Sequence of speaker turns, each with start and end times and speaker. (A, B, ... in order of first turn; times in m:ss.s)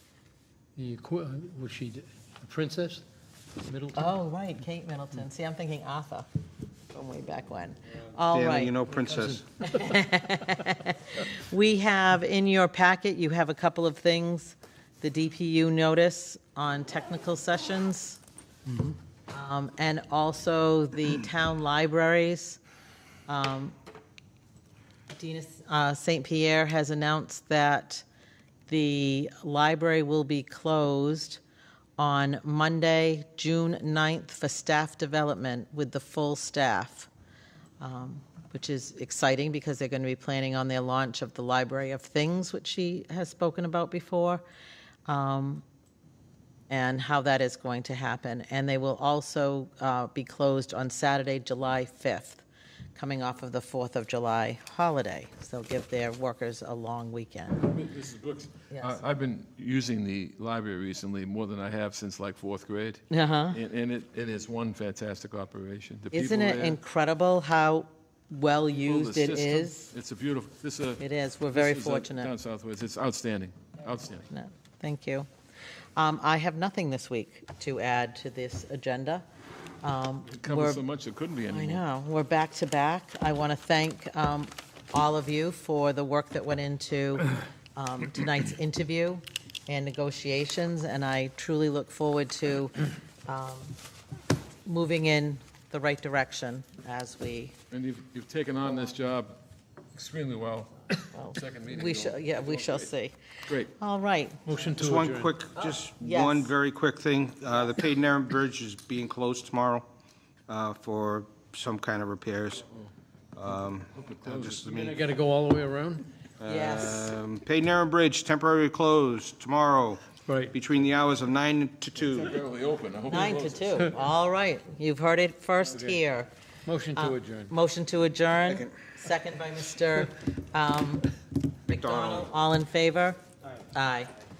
0:00.8-0:03.0 A
0:03.6-0:04.1 A
0:03.9-0:06.3 B
0:06.9-0:08.7 B
0:08.3-0:09.4 C
0:09.6-0:18.2 B
0:19.3-0:22.6 B
0:23.3-0:23.8 B
0:25.1-0:28.0 B
0:28.7-0:31.4 B
0:32.0-0:37.1 B
0:37.8-0:44.4 B
0:45.1-0:45.6 B
0:46.7-0:57.6 B
0:57.6-1:06.8 D
0:58.7-0:59.0 B
1:03.1-1:03.6 B
1:06.1-1:09.9 B
1:08.8-1:14.3 D
1:11.0-1:12.3 B
1:14.3-1:15.3 B
1:16.0-1:19.2 B
1:19.8-1:20.8 B
1:20.3-1:21.8 D
1:21.5-1:33.8 B
1:34.6-1:37.5 B
1:37.7-1:39.4 D
1:39.9-1:40.8 D
1:41.0-1:43.2 B
1:41.3-1:42.9 D
1:43.5-1:43.7 D
1:43.7-1:44.4 B
1:44.4-1:45.3 A
1:44.7-1:49.9 C
1:45.6-1:46.5 B
1:50.5-1:52.6 C
1:53.3-1:55.0 C
1:53.9-1:54.6 D
1:54.6-1:56.0 A
1:56.4-2:02.4 C
1:56.4-1:57.1 B
2:00.3-2:00.5 A
2:02.1-2:03.9 D
2:03.1-2:06.3 B
2:06.6-2:07.5 A
2:06.9-2:11.1 B
2:11.6-2:13.2 B
2:11.7-2:12.3 C
2:13.7-2:14.1 B